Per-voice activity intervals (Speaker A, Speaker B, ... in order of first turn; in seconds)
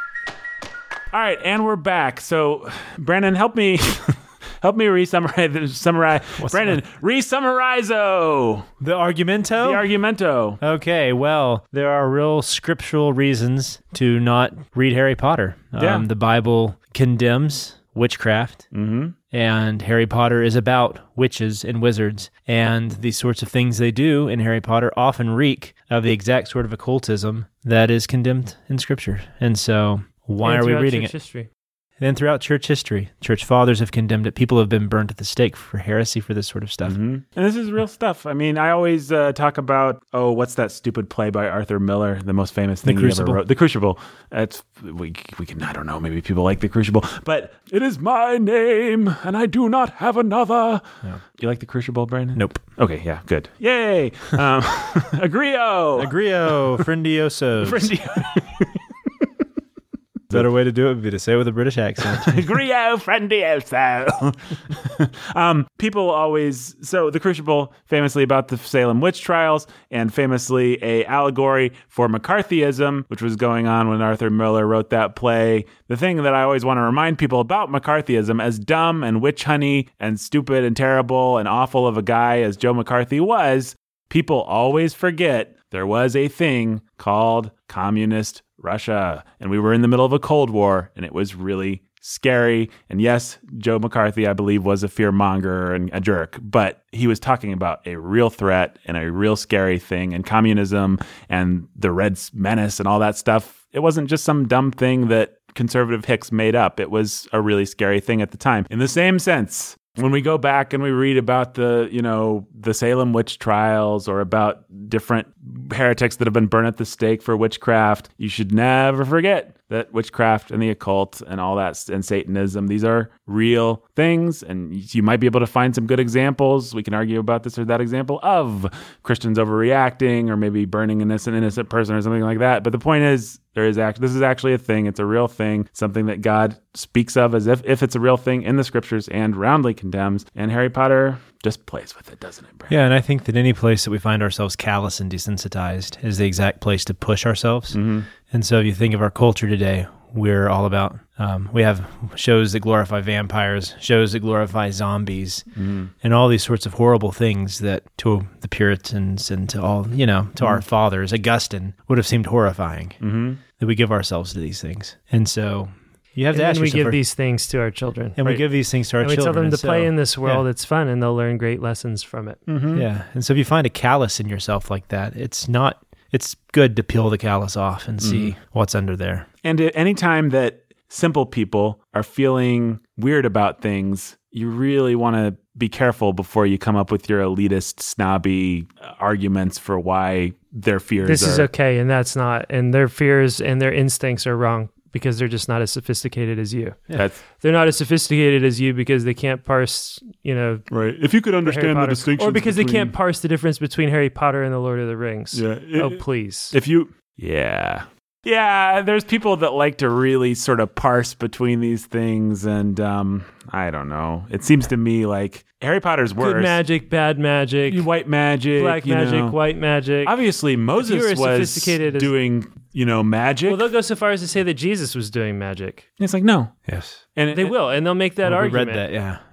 Speaker A: 1.1-8.7, 9.6-10.6, 15.8-16.1, 18.7-19.1, 36.8-50.8, 51.4-56.1, 57.6-58.8, 62.0-142.7, 147.7-148.1, 155.6-155.9, 163.0-163.4, 172.5-172.8, 178.0-178.3, 179.4-191.5, 200.7-202.9, 205.3-216.6, 217.7-219.4, 220.0-223.7, 226.0-227.5
Speaker B: 6.4-6.8, 8.8-9.9, 10.6-18.6, 19.3-31.1, 32.0-37.0, 42.8-43.4, 52.4-52.6, 56.0-57.9, 60.3-62.5, 142.7-155.4, 156.0-163.0, 163.6-167.0, 168.2-170.4, 172.7-179.3, 226.7-227.0, 228.2-229.2
Speaker C: 30.4-31.5, 166.3-168.4, 169.0-172.4, 191.0-200.7, 201.4-206.6, 216.2-217.9, 218.6-220.1, 220.8-222.1, 223.5-225.8, 227.3-228.8